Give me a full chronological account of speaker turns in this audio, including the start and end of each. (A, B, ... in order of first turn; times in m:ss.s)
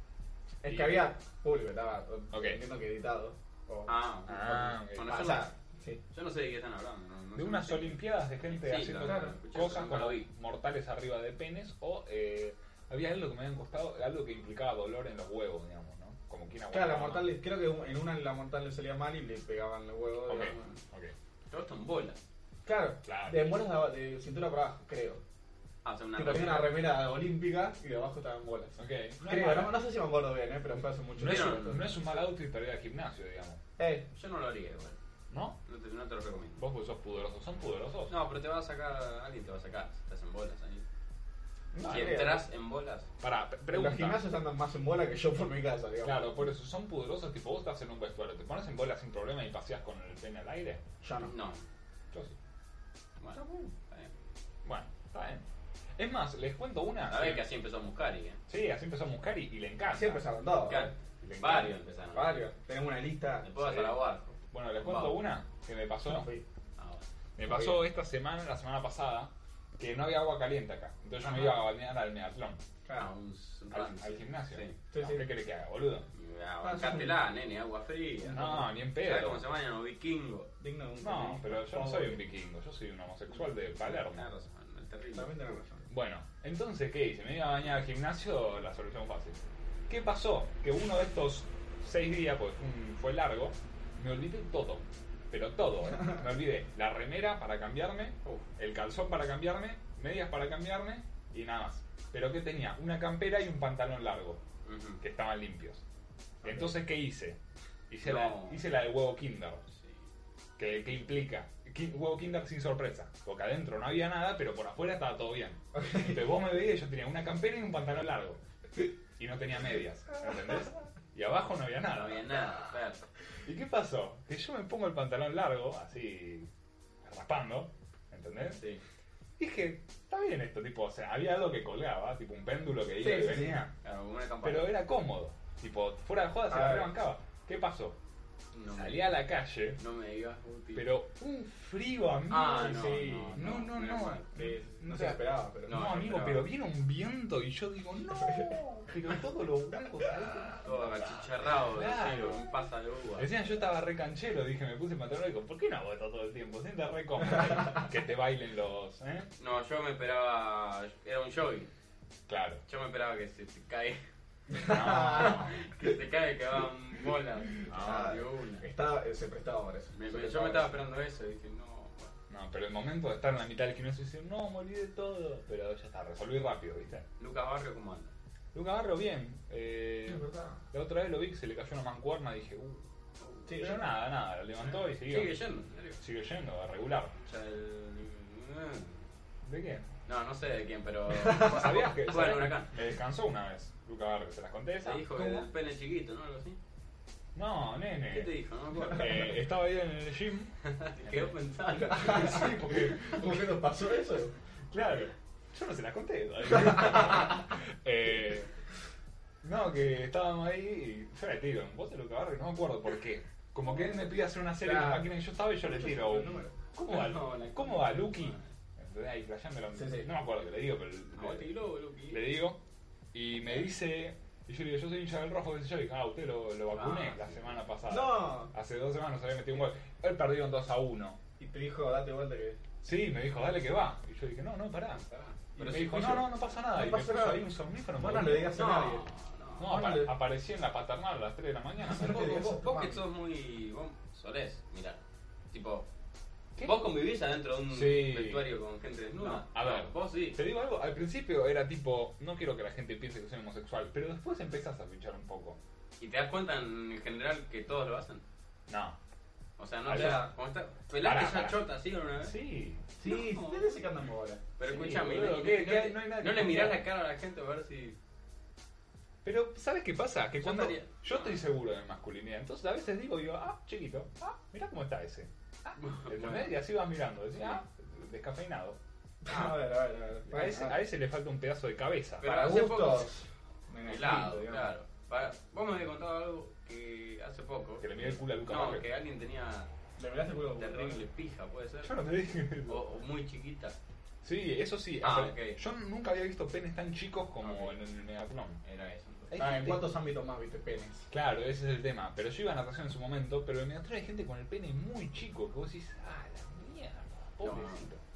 0:00.6-0:04.0 A
0:00.7-0:01.1 B
0:02.3-0:02.6 B
0:03.9-0:05.5 C
0:04.3-0:05.3 B
0:05.0-0:06.0 A
0:06.1-0:10.3 C
0:07.4-0:17.3 B
0:09.0-0:09.4 A
0:16.7-0:20.8 A
0:20.3-0:21.2 B
0:21.5-0:22.2 C
0:22.6-0:25.2 A
0:23.0-0:23.4 B
0:25.8-0:26.8 C
0:26.2-0:31.9 A
0:28.8-0:29.8 B
0:31.2-0:33.6 B
0:31.2-0:31.9 C
0:33.8-0:34.1 A
0:34.1-0:35.0 C
0:35.3-0:35.6 B
0:35.6-0:36.6 C
0:36.6-0:38.1 B
0:38.1-0:40.9 C
0:41.7-0:42.2 B
0:41.7-0:42.4 A
0:41.9-0:43.1 C
0:43.2-0:44.2 B
0:43.7-0:46.3 A
0:46.0-0:50.8 B
0:51.0-0:51.3 A
0:51.2-0:51.6 C
0:53.2-0:54.1 C
0:53.4-0:53.7 A
0:54.6-0:55.5 B
0:56.0-0:57.5 B
0:57.1-0:58.4 C
0:58.5-1:01.7 B
0:59.9-1:00.9 A
1:00.7-1:02.5 C
1:02.1-1:03.5 A
1:03.4-1:05.2 C
1:03.6-1:04.0 B
1:04.5-1:06.3 B
1:06.0-1:06.4 A
1:06.8-1:07.0 C
1:07.4-1:12.6 B
1:07.4-1:07.8 A
1:11.2-1:11.6 A
1:12.8-1:13.1 A
1:13.0-1:14.8 C
1:13.7-1:16.1 B
1:14.9-1:15.3 A
1:16.1-1:20.5 C
1:16.6-1:17.2 A
1:18.2-1:18.7 A
1:18.3-1:19.4 B
1:20.6-1:22.2 A
1:21.0-1:24.3 B
1:23.8-1:25.3 C
1:25.1-1:25.9 A
1:25.9-1:44.4 B
1:44.6-1:45.0 C
1:45.0-1:45.8 B
1:46.4-1:46.7 A
1:46.4-1:49.6 B
1:48.0-1:48.6 C
1:49.7-1:50.0 C
1:50.6-1:58.4 B
1:50.7-1:51.1 C
1:55.8-1:56.2 A
1:59.2-2:02.4 B
2:01.9-2:03.1 C
2:03.4-2:06.5 B
2:07.0-2:08.6 B
2:08.6-2:08.8 C
2:09.4-2:13.7 B
2:13.0-2:13.7 A
2:13.8-2:14.8 C
2:14.4-2:18.0 B
2:16.5-2:16.9 A
2:18.5-2:19.1 C
2:18.8-2:19.8 B
2:19.8-2:20.9 C
2:20.8-2:31.0 B
2:22.3-2:24.6 C
2:22.6-2:23.7 A
2:24.3-2:25.9 A
2:25.7-2:26.5 C
2:30.6-2:33.3 C
2:31.7-2:32.5 B
2:33.2-2:39.3 B
2:39.4-2:41.7 C
2:42.3-2:42.6 B
2:42.7-2:44.0 C
2:44.5-2:45.4 A
2:44.6-2:45.6 B
2:44.9-2:48.7 C
2:47.7-2:48.2 B
2:47.7-2:50.8 A
2:49.9-2:52.1 C
2:52.3-2:57.1 B
2:57.2-2:58.1 C
2:58.5-3:02.9 B
3:00.1-3:00.6 A
3:03.2-3:03.8 C
3:03.5-3:03.9 A
3:03.6-3:05.4 B
3:04.6-3:06.0 C
3:06.0-3:07.1 B
3:07.2-3:09.1 C
3:09.4-3:09.9 B
3:10.1-3:12.8 C
3:11.2-3:11.5 A
3:11.3-3:15.5 B
3:14.8-3:16.6 C
3:17.4-3:20.6 B
3:18.1-3:19.4 C
3:20.6-3:22.5 C
3:21.8-3:24.4 A
3:21.9-3:23.6 B
3:24.7-3:28.5 B
3:29.4-3:41.5 B
3:34.6-3:36.5 A
3:36.9-3:38.5 C
3:39.8-3:40.1 A
3:41.2-3:42.2 C
3:42.1-3:42.6 B
3:43.1-3:51.2 B
3:46.7-3:47.6 C
3:47.9-3:48.5 A
3:51.4-3:52.6 A
3:52.8-3:55.0 B
3:54.9-3:56.3 C
3:55.6-3:58.6 B
3:55.6-3:59.1 A
3:58.5-3:59.8 C
3:59.6-4:02.6 B
3:59.6-4:00.1 A
4:01.9-4:03.0 A
4:02.0-4:05.9 C
4:06.6-4:10.4 C
4:07.7-4:08.5 B
4:09.2-4:15.6 B
4:16.0-4:18.2 C
4:18.7-4:19.0 B
4:19.6-4:22.4 C
4:19.8-4:20.3 B
4:21.0-4:21.6 B
4:22.2-4:22.9 B
4:23.0-4:24.5 A
4:23.0-4:23.8 C
4:24.6-4:28.0 C
4:24.6-4:26.8 B
4:29.2-4:38.8 B
4:30.4-4:31.4 C
4:35.8-4:36.6 C
4:37.4-4:37.6 C
4:39.2-4:40.8 A
4:40.3-4:42.3 B
4:42.2-4:43.1 C
4:42.2-4:44.7 A
4:43.8-4:49.7 C
4:47.8-4:48.9 B
4:50.0-4:51.0 A
4:50.6-4:52.0 C
4:51.8-4:52.8 B
4:52.7-4:53.8 C
4:54.2-4:58.6 B
4:55.0-4:55.6 C
4:57.4-4:57.8 C
4:58.6-4:59.3 C
4:59.3-5:00.0 B
4:59.4-5:01.1 A
5:01.1-5:08.0 B
5:07.4-5:07.9 C